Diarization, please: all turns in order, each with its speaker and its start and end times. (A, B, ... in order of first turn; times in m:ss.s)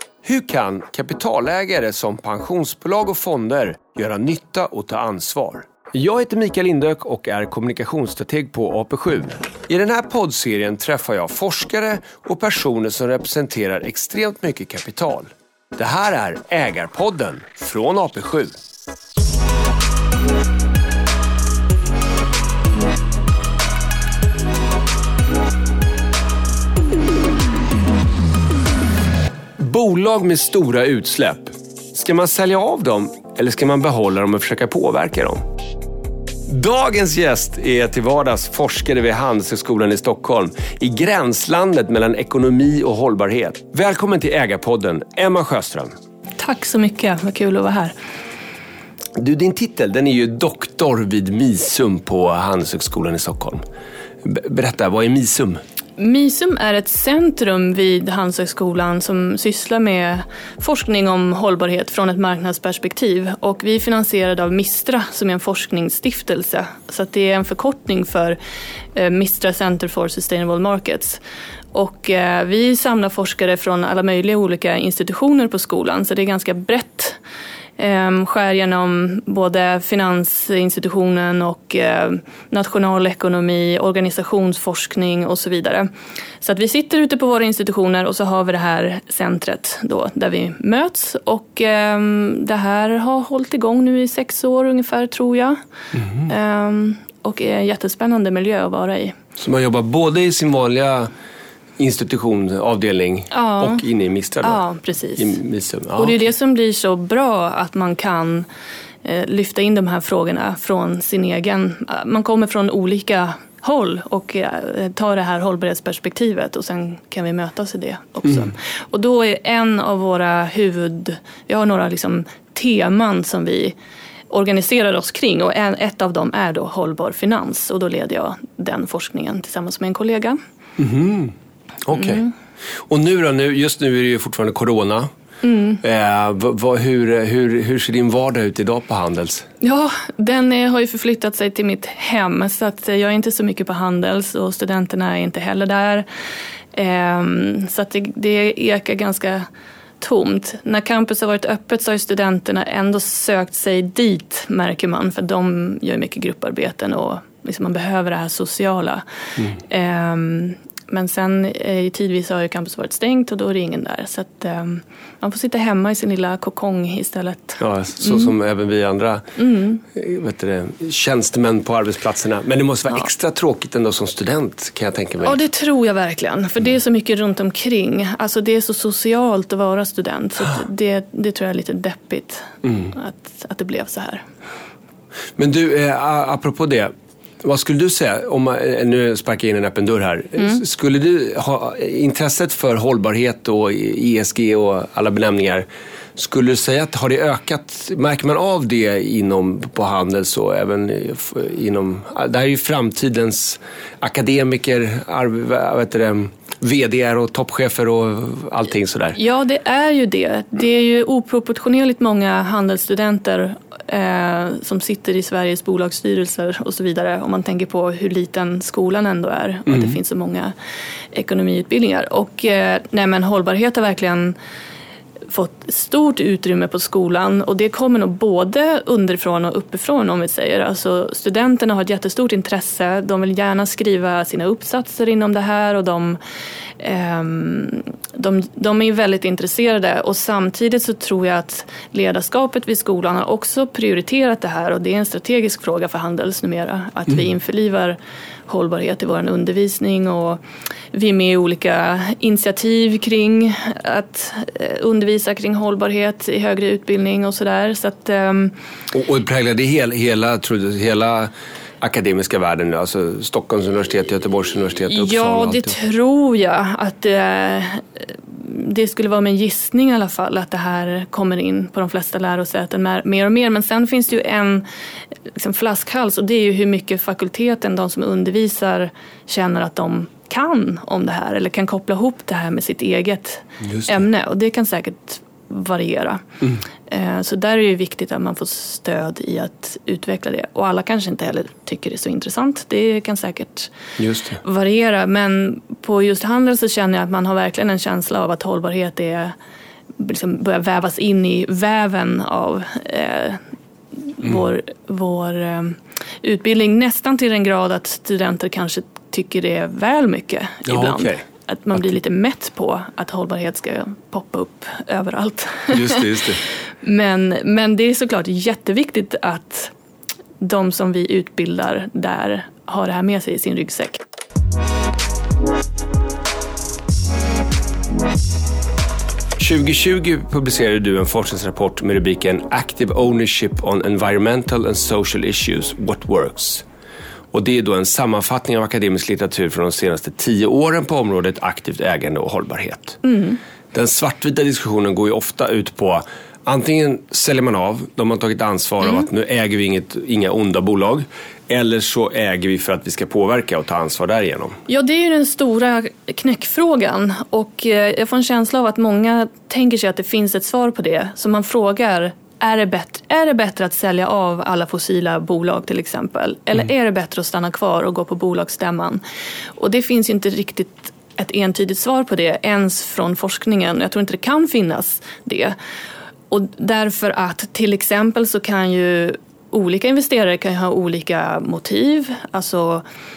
0:00.2-0:18.6 A
0:29.6-0:35.4 A
0:36.5-0:45.9 A
0:46.4-0:47.9 B
0:49.2-0:53.6 A
0:54.2-0:55.6 A
0:56.0-1:08.4 B
1:08.9-1:11.2 B
1:11.7-1:17.2 B
1:17.8-1:25.9 B
1:26.4-1:35.6 B
1:36.2-1:39.2 B
1:39.4-1:41.1 A
1:41.8-1:44.6 A
1:43.3-1:43.8 B
1:44.4-1:45.4 B
1:45.2-1:46.2 A
1:46.0-1:48.5 B
1:49.0-2:03.7 B
2:04.3-2:10.4 B
2:10.8-2:11.3 A
2:11.8-2:12.2 A
2:12.0-2:12.3 B
2:12.9-2:15.1 A
2:15.4-2:15.8 B
2:15.8-2:19.4 A
2:19.6-2:26.0 B
2:26.7-2:29.5 B
2:30.0-2:39.0 B
2:39.6-2:48.3 B
2:47.6-2:49.2 A
2:49.4-2:49.8 B
2:49.8-2:55.4 A
2:55.2-3:04.2 B
3:05.4-3:29.2 A
3:29.1-3:40.5 B
3:41.1-3:44.4 B
3:45.3-3:56.2 B
3:56.8-4:10.4 B
4:10.9-4:18.5 B
4:18.9-4:25.8 A
4:24.9-4:34.6 B
4:35.3-4:46.3 B
4:43.6-4:44.0 A
4:46.9-4:53.7 B
4:54.0-4:54.4 A
4:54.4-4:59.3 B
5:00.0-5:03.4 B
5:04.1-5:16.1 B
5:10.6-5:11.2 A
5:15.7-5:16.4 A
5:16.8-5:19.7 B
5:20.4-5:24.0 B
5:29.4-5:36.6 A
5:37.3-5:43.0 A
5:43.0-5:43.4 B
5:43.7-5:54.6 A
5:54.7-6:09.0 B
6:09.6-6:15.6 B
6:16.3-6:22.8 B